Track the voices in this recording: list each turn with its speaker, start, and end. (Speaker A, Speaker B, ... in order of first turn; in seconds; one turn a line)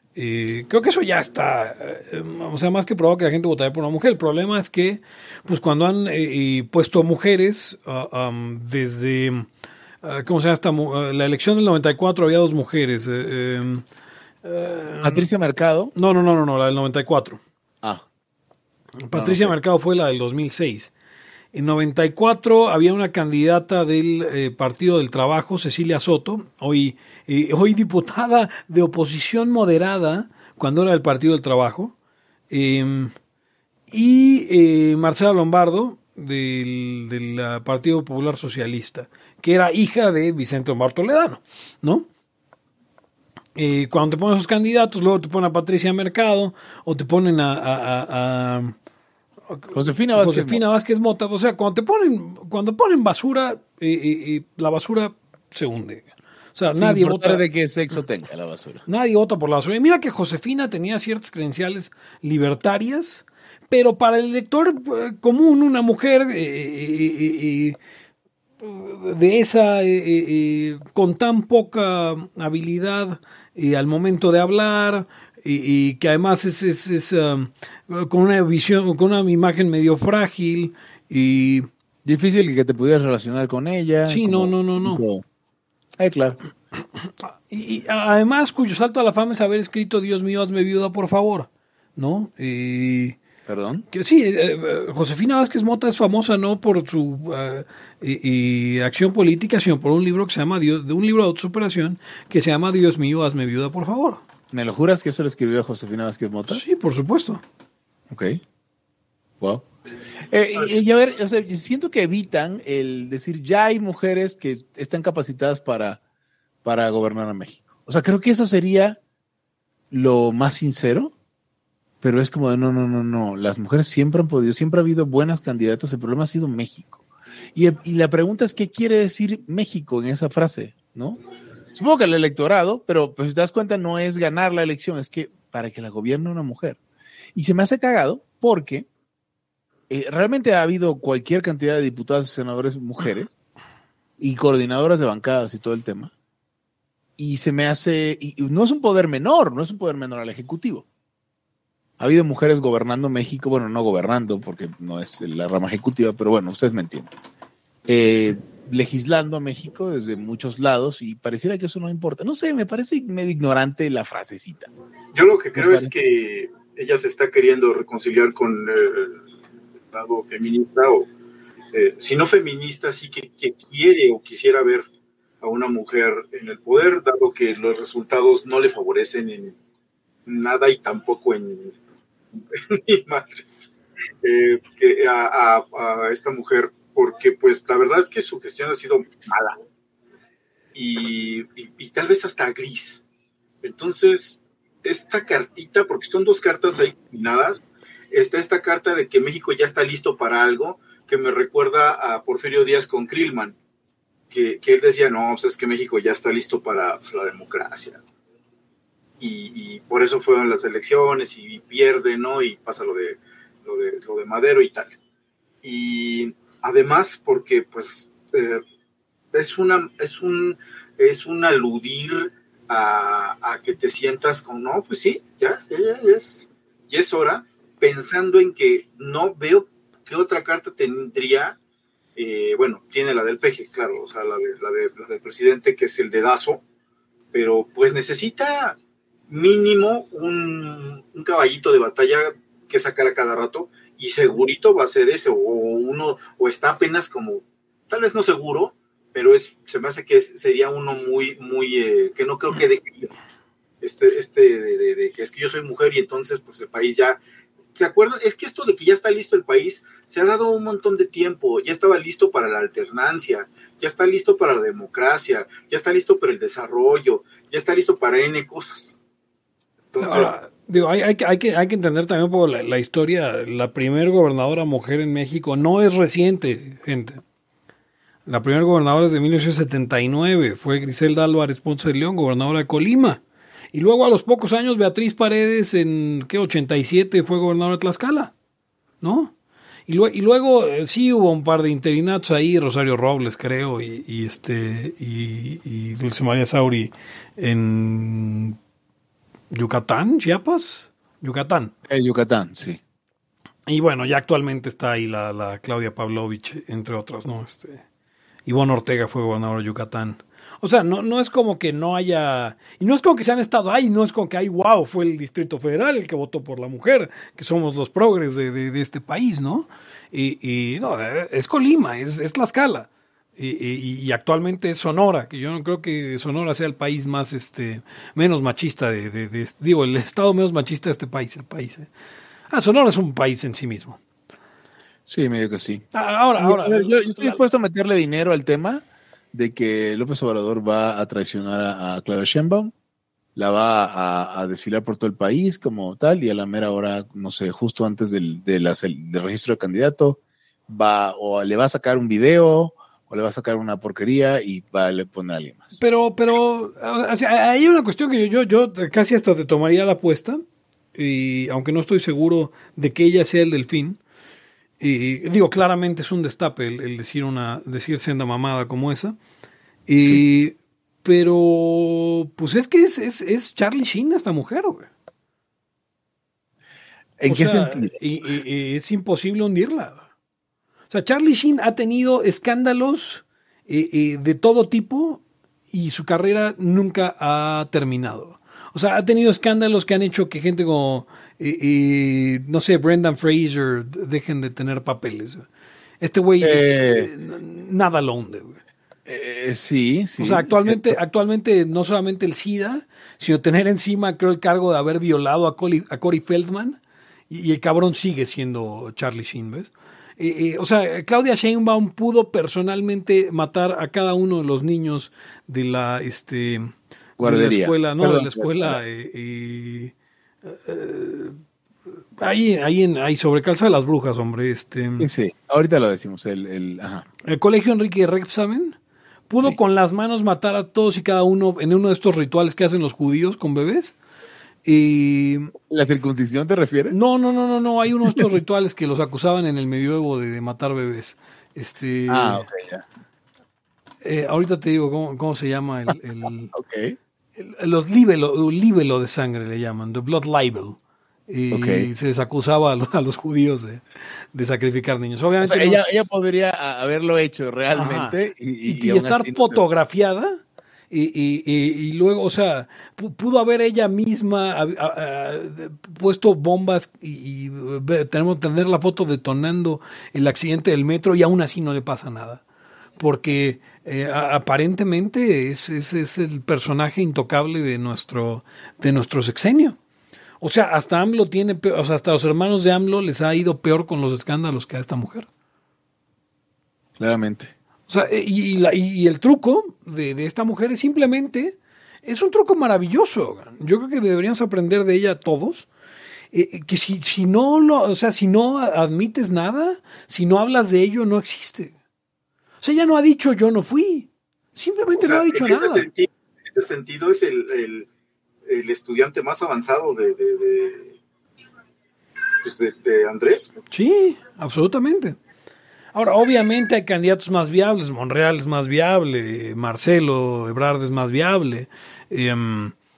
Speaker A: 0.1-9.5
Speaker A: 10.0-13.8
Speaker A: 14.4-15.2
Speaker B: 15.0-15.9
Speaker A: 15.9-17.4
Speaker A: 19.0-20.9
Speaker B: 19.1-19.5
Speaker A: 21.5-31.9
Speaker A: 32.5-33.1
Speaker A: 33.9-42.1
Speaker A: 43.5-48.7
Speaker A: 49.5-57.5
Speaker B: 49.7-50.6
Speaker B: 56.7-58.8
Speaker A: 58.9-67.8
Speaker A: 68.6-81.7
Speaker B: 82.0-85.2
Speaker A: 84.1-85.0
Speaker B: 86.0-86.4
Speaker A: 86.9-93.2
Speaker B: 93.5-93.8
Speaker A: 93.9-104.2
Speaker B: 104.5-106.6
Speaker A: 106.5-107.4
Speaker B: 108.1-108.4
Speaker B: 109.4-109.7
Speaker B: 110.3-116.0
Speaker B: 116.6-119.0
Speaker B: 119.9-121.1
Speaker B: 122.0-127.0
Speaker B: 127.5-131.2
Speaker B: 131.7-136.8
Speaker B: 137.3-138.9
Speaker B: 139.9-143.3
Speaker B: 144.2-146.1
Speaker B: 147.2-150.8
Speaker B: 152.0-157.1
Speaker B: 157.9-164.7
Speaker C: 165.1-169.2
Speaker B: 165.5-165.9
Speaker C: 169.9-171.1
Speaker C: 171.7-174.8
Speaker C: 175.4-179.6
Speaker C: 180.2-181.7
Speaker C: 182.3-183.7
Speaker C: 184.2-189.6
Speaker C: 190.7-193.0
Speaker C: 193.6-203.6
Speaker C: 204.3-208.0
Speaker C: 209.2-215.0
Speaker C: 215.6-218.6
Speaker C: 219.3-231.6
Speaker C: 232.2-236.6
Speaker C: 237.3-238.8
Speaker C: 239.3-253.1
Speaker C: 253.8-257.2
Speaker C: 257.7-269.0
Speaker C: 269.9-270.3
Speaker A: 270.0-277.2
Speaker A: 278.2-283.2
Speaker A: 283.7-288.3
Speaker A: 289.0-289.3
Speaker A: 289.9-298.6
Speaker A: 299.5-301.7
Speaker B: 301.9-302.8
Speaker A: 303.7-307.8
Speaker A: 308.4-331.9
Speaker A: 332.5-334.0
Speaker B: 335.1-335.8
Speaker A: 335.9-337.4
Speaker B: 336.4-342.7
Speaker B: 343.4-355.8
Speaker A: 355.8-360.4
Speaker A: 360.9-364.0
Speaker A: 364.8-369.2
Speaker A: 369.9-374.9
Speaker B: 377.2-377.9
Speaker A: 377.3-380.1
Speaker A: 380.9-395.5
Speaker A: 396.0-398.6
Speaker B: 396.4-397.1
Speaker B: 399.1-401.0
Speaker A: 400.2-419.9
Speaker B: 417.2-418.8
Speaker A: 420.4-421.4
Speaker A: 422.1-425.1
Speaker B: 425.0-427.1
Speaker A: 427.2-428.8
Speaker A: 429.3-433.9
Speaker A: 434.6-435.5
Speaker B: 435.7-436.9
Speaker A: 436.9-442.5
Speaker B: 442.1-442.8
Speaker A: 444.0-446.5
Speaker B: 446.5-447.0
Speaker A: 447.4-456.0
Speaker B: 451.5-451.9
Speaker B: 455.4-459.6
Speaker A: 457.7-472.4
Speaker A: 473.0-479.8
Speaker A: 480.4-485.3
Speaker B: 487.0-487.5
Speaker A: 487.9-495.7
Speaker A: 496.3-501.7
Speaker A: 502.6-505.9
Speaker C: 505.0-507.9
Speaker C: 508.4-511.0
Speaker C: 512.4-513.6
Speaker A: 513.7-515.2
Speaker A: 515.9-522.7